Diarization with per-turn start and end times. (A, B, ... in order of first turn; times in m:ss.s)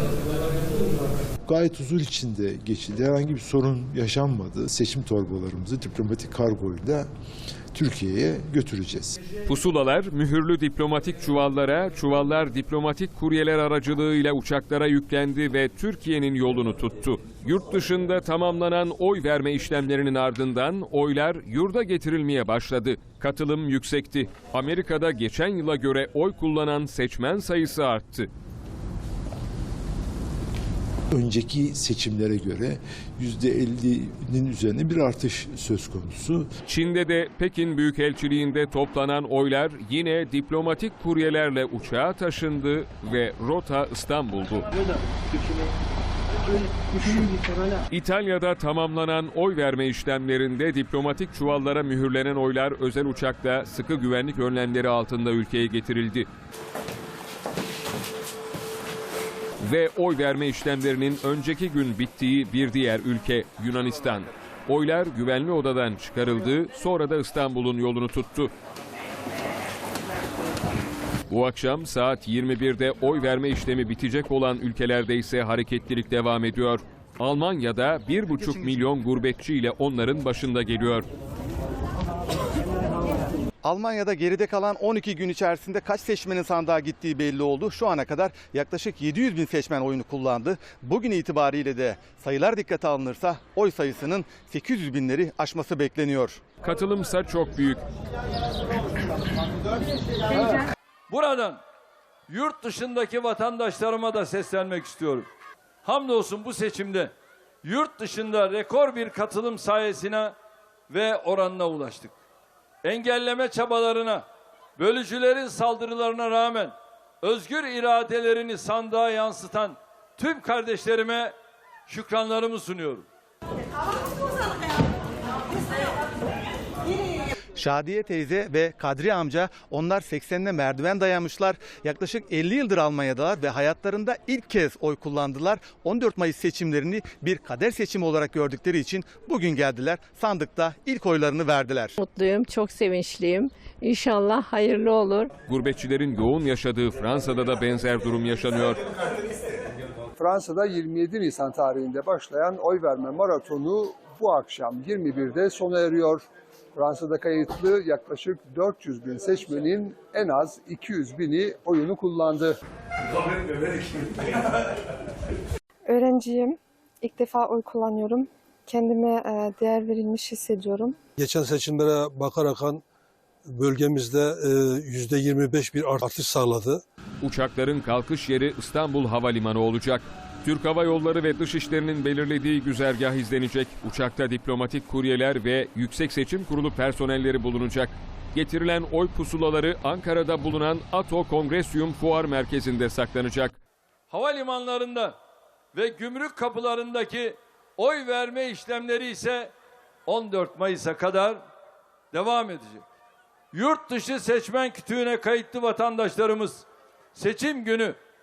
0:01.4-0:07.1 A
0:07.7-0:09.2 A
0:09.4-0:28.3 B
0:31.1-0:36.5 A
0:36.7-0:44.7 B
0:47.9-0:56.3 B
0:59.6-1:08.5 B
1:11.3-1:21.0 B
1:18.3-1:18.9 C
1:23.6-1:36.4 C
1:36.6-1:37.8 B
1:40.3-1:41.6 D
1:42.3-1:45.3 D
1:45.8-1:47.1 D
1:47.6-1:50.3 D
1:50.9-1:52.1 D
1:52.8-1:54.2 D
1:54.8-2:01.3 D
2:01.9-2:03.0 D
2:07.6-2:22.0 C
2:22.0-2:25.3 E
2:25.5-2:28.8 B
2:30.2-2:42.6 F
2:45.9-2:51.0 G
2:51.2-2:52.8 H
2:53.4-2:56.8 H
2:57.2-3:13.6 B
3:14.1-3:15.1 D
3:15.7-3:19.5 D
3:20.1-3:21.4 D
3:22.1-3:22.8 D
3:23.5-3:26.6 D
3:27.1-3:28.0 D